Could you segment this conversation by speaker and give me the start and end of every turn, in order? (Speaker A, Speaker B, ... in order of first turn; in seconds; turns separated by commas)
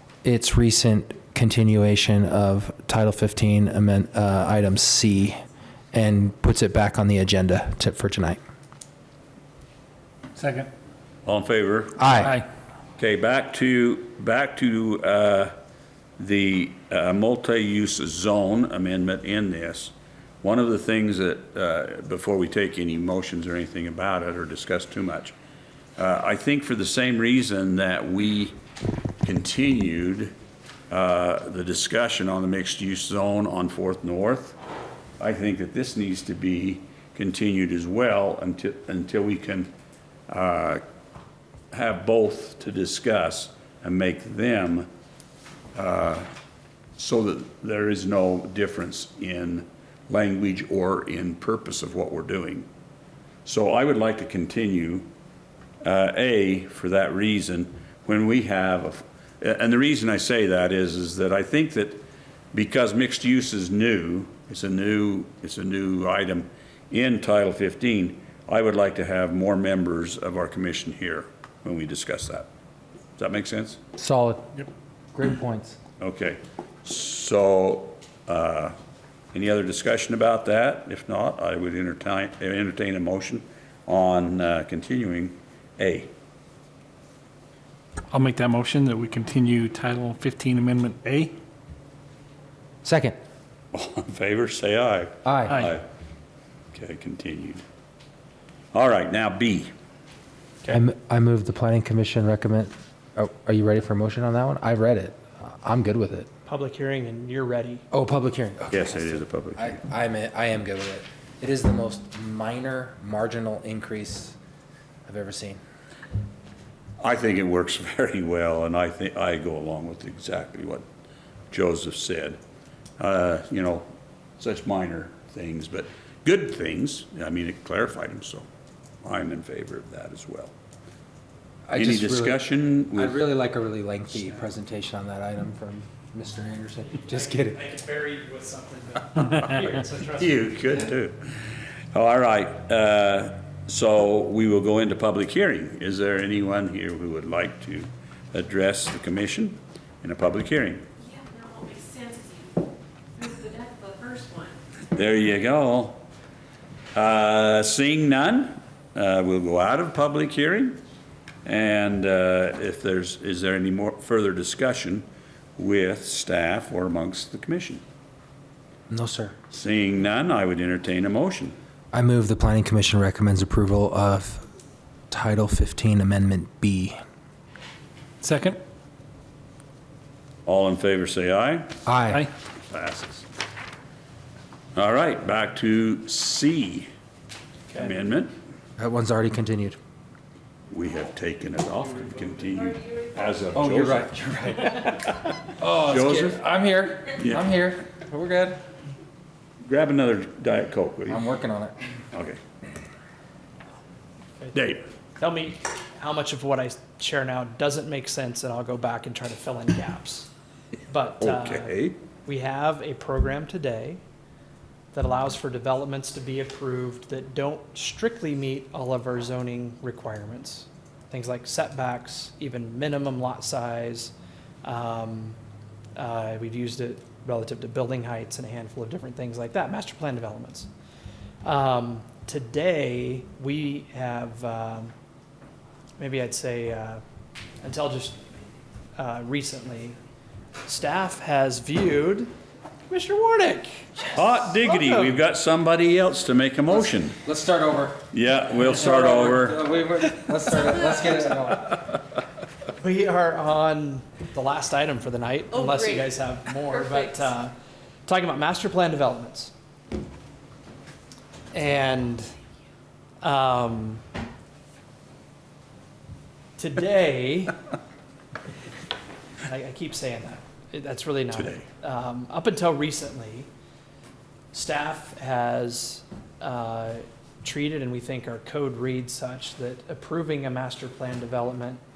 Speaker A: 0.2-5.4, Speaker A: 5.9-8.4, Speaker B: 10.4-10.7, Speaker C: 11.2-12.1, Speaker A: 12.0-12.3, Speaker B: 12.1-12.4, Speaker C: 13.0-15.5, Speaker C: 16.2-25.3, Speaker C: 26.0-28.5, Speaker C: 29.2-30.3, Speaker C: 30.9-34.6, Speaker C: 35.2-39.7, Speaker C: 40.3-40.8, Speaker C: 41.7-44.9, Speaker C: 45.7-46.3, Speaker C: 47.0-52.7, Speaker C: 53.4-55.1, Speaker C: 55.8-72.5, Speaker C: 73.2-73.8, Speaker A: 74.0-75.8, Speaker C: 76.0-78.7, Speaker C: 79.3-86.1, Speaker B: 88.1-91.3, Speaker A: 92.8-93.2, Speaker C: 93.7-95.8, Speaker A: 95.2-95.5, Speaker B: 95.5-95.7, Speaker C: 96.7-97.6, Speaker C: 98.7-99.7, Speaker A: 100.7-106.3, Speaker D: 106.5-107.8, Speaker A: 107.9-114.4, Speaker C: 108.7-109.8, Speaker A: 115.0-115.6, Speaker C: 117.0-120.8, Speaker C: 121.5-122.4, Speaker C: 123.0-123.8, Speaker C: 124.4-128.4, Speaker C: 129.0-130.5, Speaker A: 131.7-132.4, Speaker C: 131.7-133.3, Speaker A: 132.9-137.6, Speaker D: 136.9-140.8, Speaker C: 139.2-139.6, Speaker C: 140.2-141.2, Speaker C: 141.9-150.8, Speaker E: 151.1-152.6, Speaker E: 153.2-154.5, Speaker C: 154.9-156.0, Speaker C: 156.9-160.8, Speaker C: 161.4-165.0, Speaker C: 165.6-167.8, Speaker A: 168.9-169.3, Speaker C: 169.5-171.5, Speaker A: 171.9-174.4, Speaker A: 175.1-177.0, Speaker B: 178.2-178.6, Speaker C: 180.4-181.8, Speaker A: 181.8-182.2, Speaker C: 182.7-183.2, Speaker C: 184.7-186.8, Speaker C: 187.7-188.3, Speaker A: 188.8-189.8, Speaker C: 190.7-194.1, Speaker A: 193.5-195.0, Speaker A: 195.6-198.6, Speaker C: 195.8-196.4, Speaker C: 197.2-197.5, Speaker C: 199.6-201.2, Speaker A: 201.1-201.8, Speaker C: 202.1-202.4, Speaker C: 204.5-204.9, Speaker D: 205.1-210.3, Speaker D: 210.9-214.0, Speaker C: 211.2-211.9, Speaker D: 214.9-224.1, Speaker D: 224.6-225.4, Speaker D: 226.0-230.7, Speaker D: 231.4-234.9, Speaker D: 236.0-237.0, Speaker D: 237.6-238.2, Speaker D: 238.9-240.0, Speaker D: 240.6-242.3, Speaker D: 242.9-245.2, Speaker C: 244.1-247.2, Speaker A: 247.2-248.0, Speaker C: 248.1-249.7, Speaker A: 248.7-251.7, Speaker D: 252.8-257.5, Speaker D: 258.1-259.5, Speaker D: 261.5-262.3, Speaker D: 263.2-264.0, Speaker D: 266.6-267.6, Speaker D: 269.4-273.5, Speaker C: 271.3-271.6, Speaker D: 274.5-281.8